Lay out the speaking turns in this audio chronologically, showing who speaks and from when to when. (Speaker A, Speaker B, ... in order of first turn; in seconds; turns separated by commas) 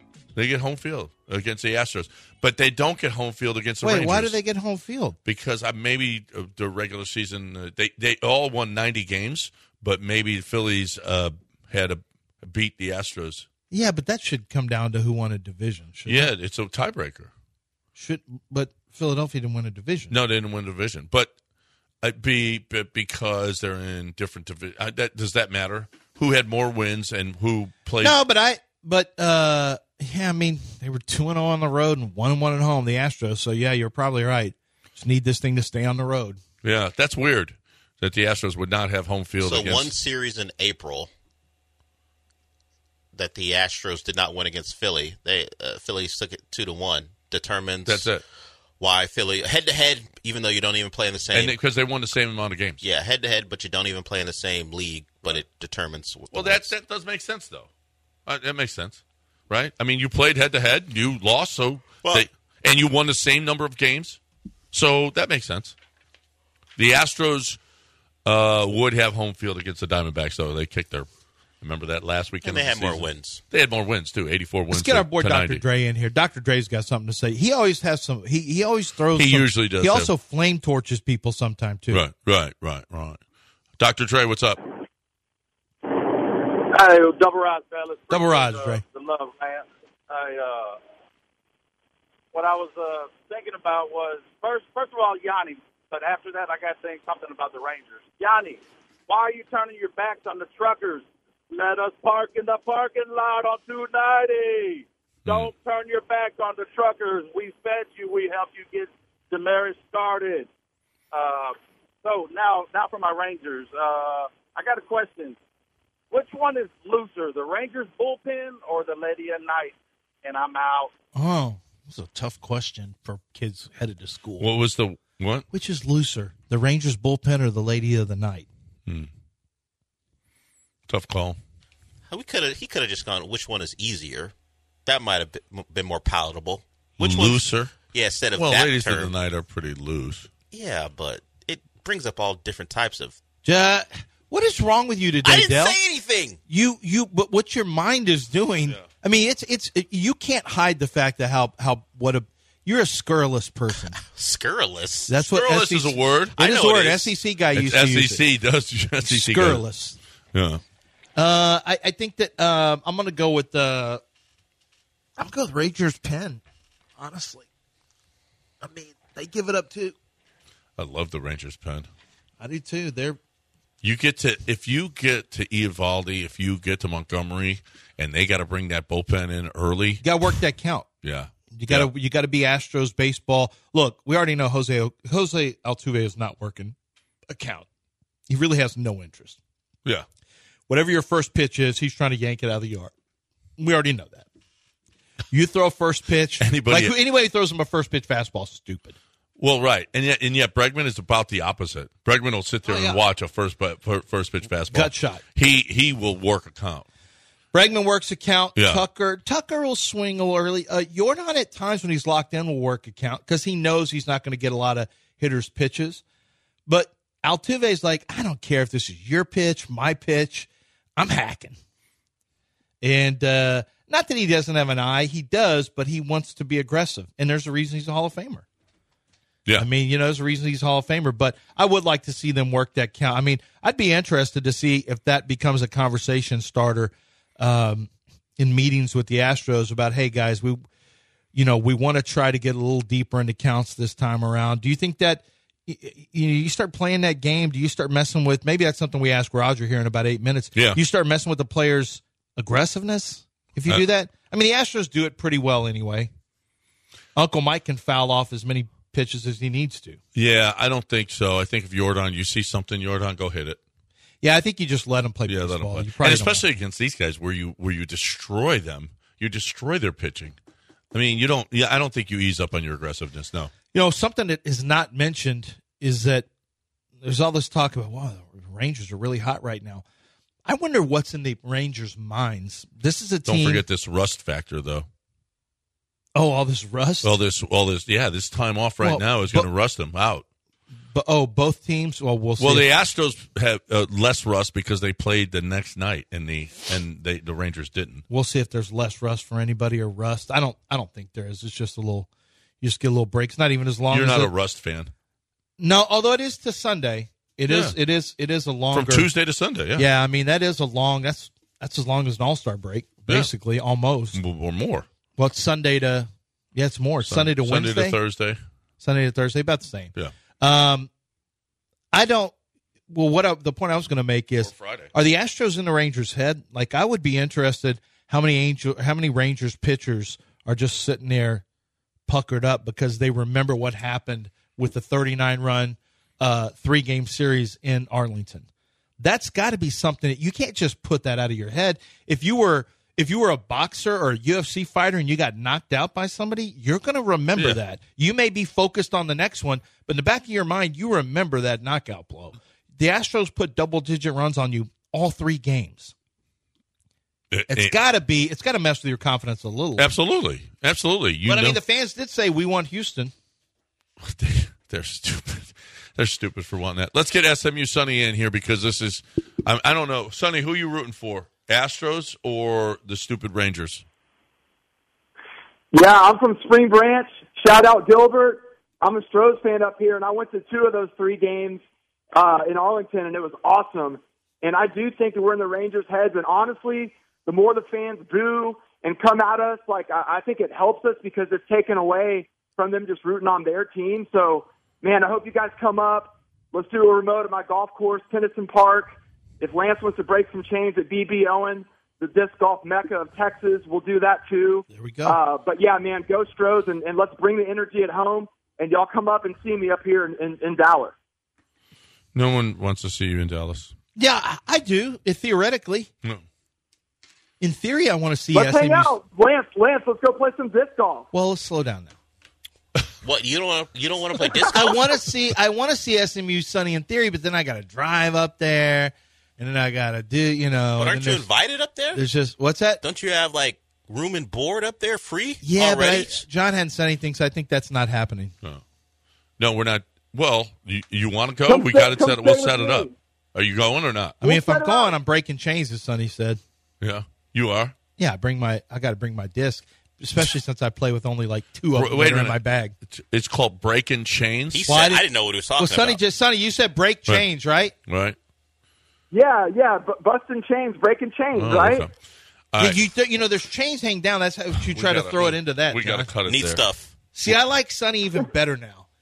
Speaker A: 0.3-4.4, Speaker B: 3.8-5.2, Speaker A: 5.3-13.5, Speaker B: 13.7-16.3, Speaker A: 16.1-17.3, Speaker B: 18.0-20.1, Speaker A: 20.1-21.3, Speaker A: 22.0-28.2, Speaker B: 28.0-36.4, Speaker A: 36.6-39.9, Speaker C: 39.4-41.1, Speaker C: 43.1-48.1, Speaker A: 47.9-48.2, Speaker C: 48.8-51.5, Speaker A: 51.3-52.8, Speaker C: 52.8-56.7, Speaker A: 56.3-57.7, Speaker A: 58.3-64.2, Speaker A: 64.7-65.8, Speaker A: 66.8-67.6, Speaker A: 68.2-71.1, Speaker A: 71.6-75.6, Speaker C: 72.4-73.4, Speaker B: 74.7-82.0, Speaker A: 79.1-80.1, Speaker A: 81.9-83.2, Speaker A: 83.8-84.6, Speaker D: 86.0-90.8, Speaker B: 88.1-88.8, Speaker D: 92.3-110.5, Speaker A: 105.2-105.5, Speaker D: 111.1-115.4, Speaker D: 116.1-120.9, Speaker B: 121.2-124.5, Speaker A: 124.4-125.5, Speaker B: 125.5-128.5, Speaker A: 130.9-131.4, Speaker C: 132.1-134.3, Speaker C: 134.9-139.1, Speaker A: 137.0-137.8, Speaker A: 138.3-140.3, Speaker C: 140.5-143.2, Speaker B: 143.4-145.8, Speaker C: 145.2-146.4, Speaker B: 146.5-154.0, Speaker C: 154.1-155.5, Speaker B: 155.1-158.2, Speaker A: 155.4-157.0, Speaker C: 156.5-157.0, Speaker A: 157.5-159.6, Speaker B: 159.0-160.0, Speaker A: 160.3-160.6, Speaker B: 161.2-164.0, Speaker B: 165.2-166.4, Speaker B: 167.0-167.5, Speaker B: 168.6-169.9, Speaker A: 170.8-171.9, Speaker B: 172.4-173.2, Speaker A: 173.8-180.1, Speaker B: 180.0-180.9, Speaker A: 181.0-181.9, Speaker B: 181.5-186.8, Speaker B: 187.3-187.7, Speaker B: 188.3-189.4, Speaker B: 190.7-192.9, Speaker B: 193.6-194.3, Speaker B: 195.3-199.0, Speaker A: 196.4-196.9, Speaker A: 199.4-206.8, Speaker B: 202.7-203.0, Speaker B: 204.7-205.2, Speaker B: 207.5-216.0, Speaker A: 208.6-208.8, Speaker B: 216.7-221.6, Speaker B: 222.8-228.4, Speaker B: 229.6-240.6, Speaker B: 241.3-256.1, Speaker B: 257.1-260.0, Speaker A: 260.1-263.6, Speaker B: 264.2-266.4, Speaker A: 265.3-270.4, Speaker A: 270.9-273.5, Speaker B: 273.7-276.3, Speaker B: 277.0-279.8, Speaker B: 280.5-283.6, Speaker A: 283.3-284.9, Speaker B: 286.1-287.1, Speaker A: 287.0-290.2, Speaker B: 288.8-289.5, Speaker B: 290.9-292.7, Speaker A: 292.4-298.1, Speaker B: 298.1-302.1, Speaker B: 302.6-304.3, Speaker A: 303.9-304.9, Speaker B: 305.6-309.1, Speaker A: 307.5-307.8, Speaker A: 308.7-309.9, Speaker B: 309.8-314.2, Speaker A: 314.1-314.9, Speaker B: 315.2-318.0, Speaker A: 317.1-318.4, Speaker B: 318.8-320.9, Speaker B: 321.9-322.3, Speaker B: 322.9-331.4, Speaker A: 324.4-324.9, Speaker B: 332.1-338.5, Speaker B: 339.0-355.9, Speaker A: 357.3-357.8, Speaker B: 357.5-359.9, Speaker A: 359.8-361.6, Speaker B: 361.3-363.1, Speaker A: 364.0-373.9, Speaker E: 375.7-381.6, Speaker E: 382.1-410.9, Speaker B: 404.7-405.2, Speaker A: 412.1-413.7, Speaker B: 414.0-415.9, Speaker B: 417.4-418.9, Speaker E: 418.3-421.1, Speaker B: 421.1-421.9, Speaker C: 423.0-424.8, Speaker B: 424.4-431.3, Speaker C: 430.8-432.0, Speaker B: 431.9-432.8, Speaker C: 432.8-436.2, Speaker B: 435.4-438.3, Speaker A: 439.4-444.2, Speaker E: 441.5-442.9, Speaker E: 444.2-444.9, Speaker B: 444.2-446.4, Speaker A: 446.8-447.8, Speaker B: 448.0-452.8, Speaker A: 451.7-454.7, Speaker C: 454.5-456.0, Speaker B: 454.7-457.7, Speaker A: 457.9-458.2, Speaker E: 459.1-461.9, Speaker A: 461.3-461.9, Speaker A: 462.5-462.9, Speaker B: 462.6-466.1, Speaker A: 464.6-466.6, Speaker C: 466.3-466.9, Speaker B: 467.1-468.9